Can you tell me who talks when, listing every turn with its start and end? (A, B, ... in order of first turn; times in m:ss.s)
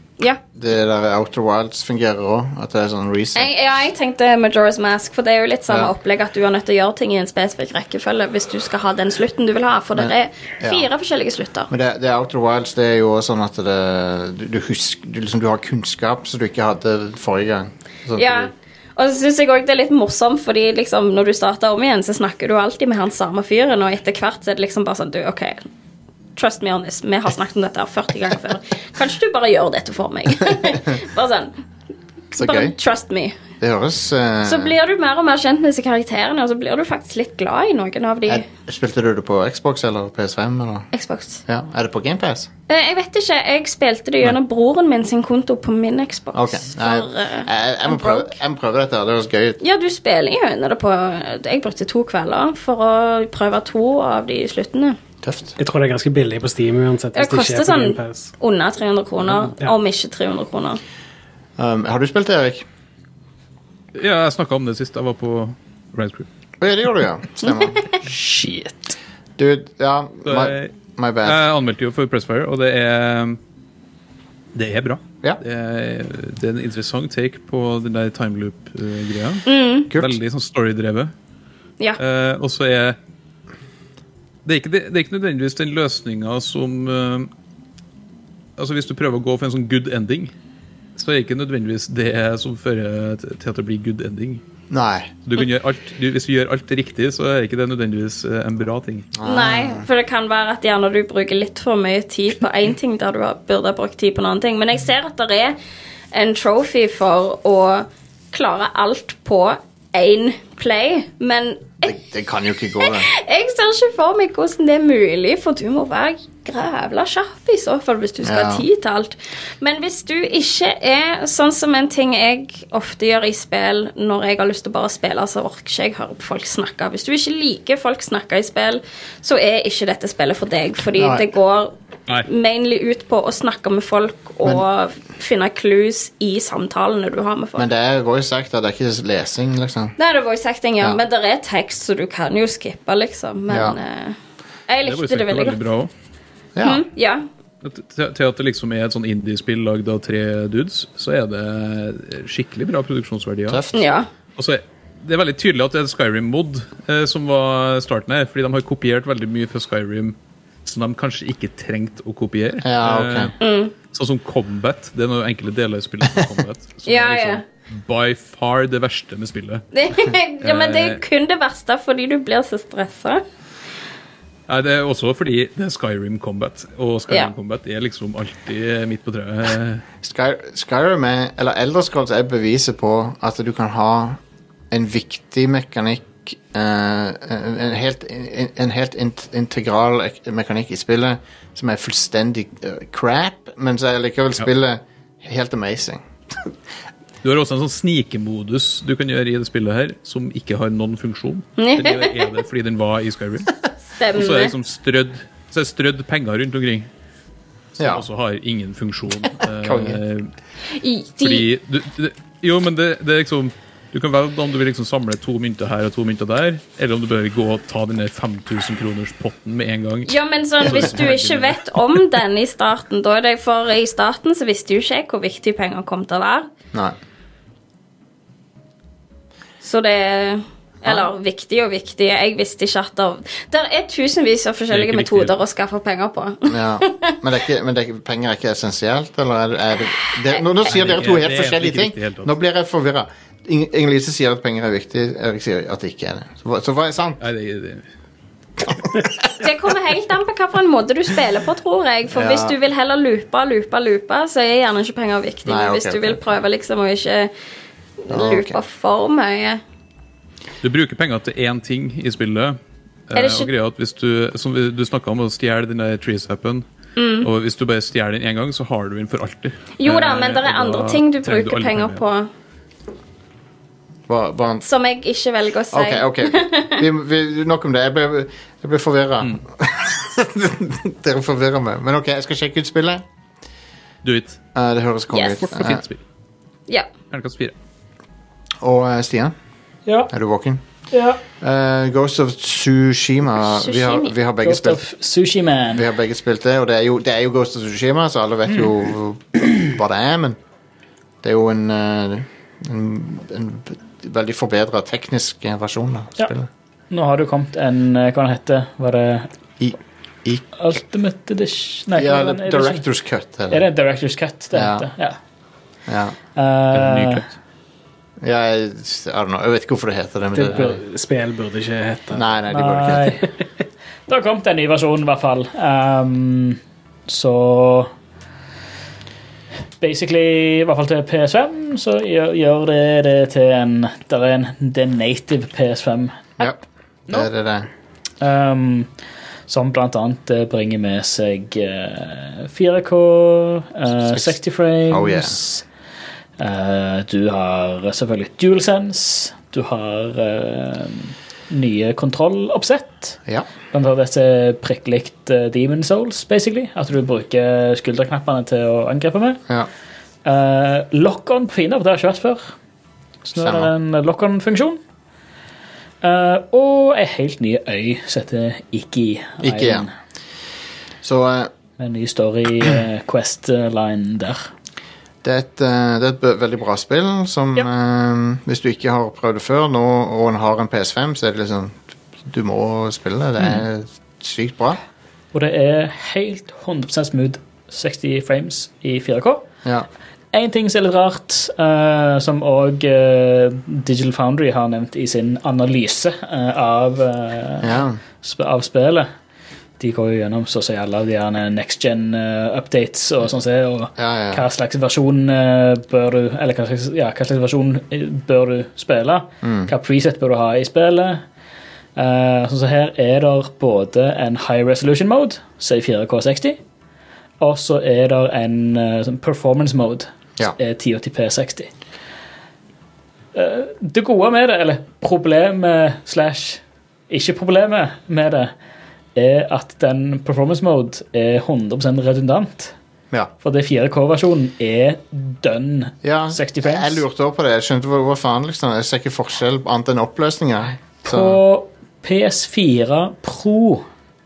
0:00.5-0:03.5 A
0:03.3-0:11.7 B
0:09.9-0:10.9 A
0:11.7-0:18.5 A
0:18.2-0:25.7 B
0:26.4-0:31.5 B
0:32.3-0:33.4 B
0:32.3-0:32.7 A
0:33.6-0:34.7 A
0:34.4-0:38.4 B
0:38.3-0:40.9 A
0:40.9-0:41.4 B
0:41.4-0:42.5 A
0:42.7-0:48.3 B
0:46.3-0:49.6 A
0:49.6-0:55.0 B
0:55.2-0:55.6 A
0:55.6-0:58.3 C
0:57.1-1:00.8 B
1:01.6-1:02.6 A
1:03.9-1:06.3 D
1:06.6-1:07.8 A
1:07.4-1:07.7 B
1:08.0-1:08.9 E
1:09.4-1:11.4 A
1:10.2-1:10.7 D
1:11.2-1:13.4 D
1:14.5-1:21.1 D
1:19.4-1:19.9 B
1:22.0-1:23.0 D
1:24.4-1:27.3 D
1:28.6-1:30.3 D
1:31.0-1:34.4 D
1:34.7-1:35.1 A
1:35.2-1:39.1 D
1:39.2-1:39.8 A
1:39.2-1:45.6 B
1:46.1-1:51.9 B
1:51.8-1:53.1 A
1:52.8-2:11.7 B
1:58.2-1:58.6 A
2:10.9-2:11.3 A
2:12.2-2:17.6 B
2:17.6-2:19.9 A
2:20.0-2:24.2 B
2:23.5-2:23.8 A
2:24.7-2:25.6 B
2:24.8-2:25.9 D
2:26.6-2:26.8 A
2:26.6-2:27.2 B
2:27.6-2:33.6 D
2:33.5-2:33.8 A
2:33.7-2:34.1 B
2:34.4-2:43.3 D
2:42.6-2:43.3 A
2:43.4-2:43.7 B
2:43.8-2:49.6 D
2:46.8-2:47.4 B
2:49.7-2:53.2 B
2:50.4-2:51.0 D
2:54.5-2:59.8 D
3:00.0-3:04.2 A
3:04.7-3:16.5 A
3:17.2-3:23.5 D
3:21.6-3:22.4 B
3:24.0-3:24.5 B
3:24.1-3:26.9 D
3:27.8-3:30.3 D
3:27.8-3:28.0 A
3:29.6-3:30.0 A
3:30.7-3:31.5 B
3:31.2-3:41.6 D
3:40.1-3:46.5 B
3:49.6-3:57.1 B
3:54.7-3:55.3 D
3:56.5-4:07.2 A
4:00.7-4:02.3 D
4:07.2-4:07.8 D
4:09.4-4:17.3 B
4:12.1-4:12.6 A
4:15.4-4:16.2 A
4:18.0-4:19.6 B
4:18.1-4:18.6 A
4:20.6-4:22.6 D
4:23.1-4:26.6 D
4:23.1-4:23.5 B
4:27.0-4:27.3 B
4:27.2-4:32.0 D
4:29.8-4:32.3 B
4:34.1-4:34.6 A
4:34.6-4:36.8 B
4:35.7-4:43.0 A
4:44.0-4:44.4 D
4:44.5-4:45.8 A
4:45.1-4:45.4 B
4:45.4-4:46.0 D
4:47.1-4:47.5 D
4:48.6-4:49.3 A
4:50.1-4:50.6 A
4:50.9-4:51.2 E
4:51.4-4:54.8 A
4:53.4-4:54.1 B
4:54.4-4:55.8 E
4:55.7-5:00.4 A
5:01.2-5:06.5 A
5:06.9-5:09.3 E
5:09.6-5:10.4 A
5:10.5-5:12.8 E
5:11.9-5:13.6 A
5:13.5-5:15.2 E
5:14.5-5:14.9 A
5:15.9-5:16.2 A
5:16.4-5:17.2 E
5:16.7-5:17.3 D
5:18.2-5:20.8 A
5:20.3-5:22.3 C
5:22.1-5:23.2 A
5:22.5-5:23.2 E
5:24.1-5:27.9 E
5:29.8-5:36.5 E
5:36.4-5:37.7 A
5:38.2-5:38.9 E
5:39.5-5:45.6 E
5:44.1-5:44.3 A
5:44.9-5:45.4 A
5:46.4-5:53.2 E
5:53.7-5:59.4 E
6:00.2-6:02.5 E
6:03.2-6:04.8 E
6:03.4-6:03.7 A
6:06.0-6:09.9 E
6:09.4-6:09.9 A
6:11.0-6:11.5 A
6:11.8-6:14.5 E
6:15.2-6:24.8 A
6:25.3-6:29.5 E
6:30.3-6:39.1 E
6:37.6-6:38.0 A
6:39.8-6:51.2 E
6:44.0-6:44.4 A
6:49.4-6:49.7 A
6:52.0-6:56.6 E
6:57.4-7:01.7 E
7:03.3-7:08.5 E
7:09.1-7:12.7 E
7:13.4-7:17.0 E
7:16.0-7:21.4 A
7:21.0-7:23.8 E